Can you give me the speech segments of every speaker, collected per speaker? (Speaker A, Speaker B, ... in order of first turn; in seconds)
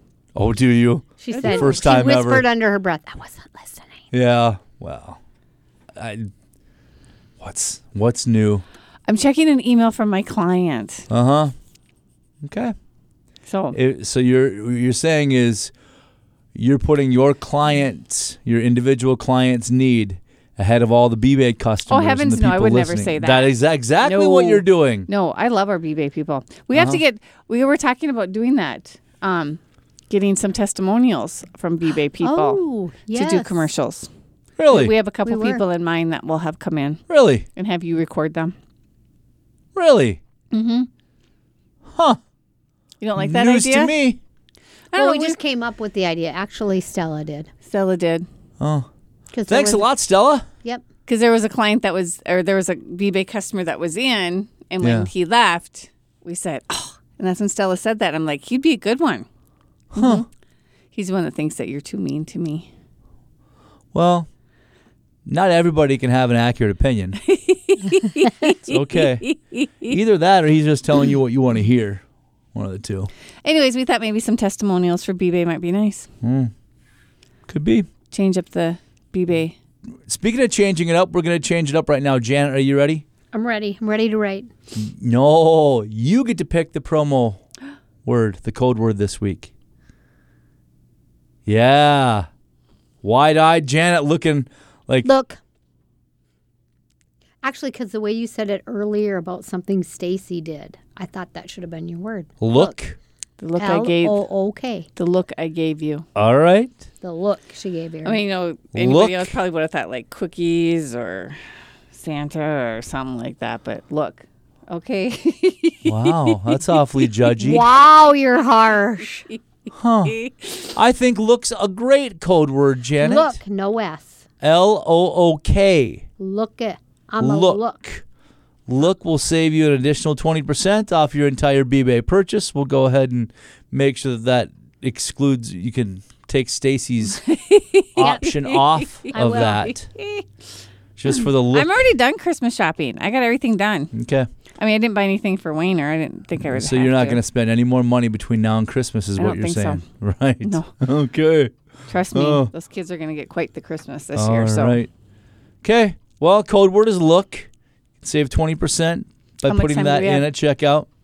Speaker A: 0.3-2.4, 4.1-5.2, 5.9-6.3, 7.4-8.6, 11.1-11.5, 12.4-12.7, 13.7-15.7, 16.5-25.1, 26.7-27.0, 34.6-34.9, 37.1-37.5, 39.7-40.2, 41.9-42.2, 43.2-44.2, 48.6-48.9, 49.5-50.5, 54.8-55.1, 59.9-60.2, 63.9-64.3, 65.2-67.2, 68.6-73.1, 76.2-76.5, 77.5-77.9, 80.0-83.0, 84.7-87.4, 88.0-89.5, 91.5-92.3, 93.0-95.1, 102.4-103.0, 106.1-106.8, 108.7-109.3, 115.8-117.7, 119.7-123.4, 124.4-126.0, 127.2-128.0, 128.7-137.2, 137.9-139.9, 141.0-141.8, 143.9-144.3, 146.4-151.5, 152.1-152.5, 154.1-154.9, 155.6-157.5, 158.0-160.9
Speaker B: 1.2-4.0, 32.2-33.7, 35.2-35.6, 44.9-47.5, 49.3-49.9, 83.3-84.5, 95.0-95.4, 97.4-102.7, 103.6-104.9, 107.0-108.2, 117.4-119.3, 123.0-124.2, 126.2-127.8, 139.1-139.7
Speaker C: 1.3-1.8, 9.1-11.1, 13.5-13.8, 21.9-32.6, 33.1-34.1, 34.7-37.0, 37.5-38.5, 40.5-40.9, 43.0-43.9, 44.9-45.4, 47.6-48.2, 51.1-59.2, 59.9-60.2, 60.9-62.7, 67.2-69.9, 73.4-76.1, 78.1-79.5, 103.4-104.2, 105.0-106.0, 108.0-111.4, 111.9-116.6, 137.2-140.2, 141.1-143.9, 144.6-147.2, 149.2-149.8, 150.4-150.7, 151.9-154.8, 159.4-160.3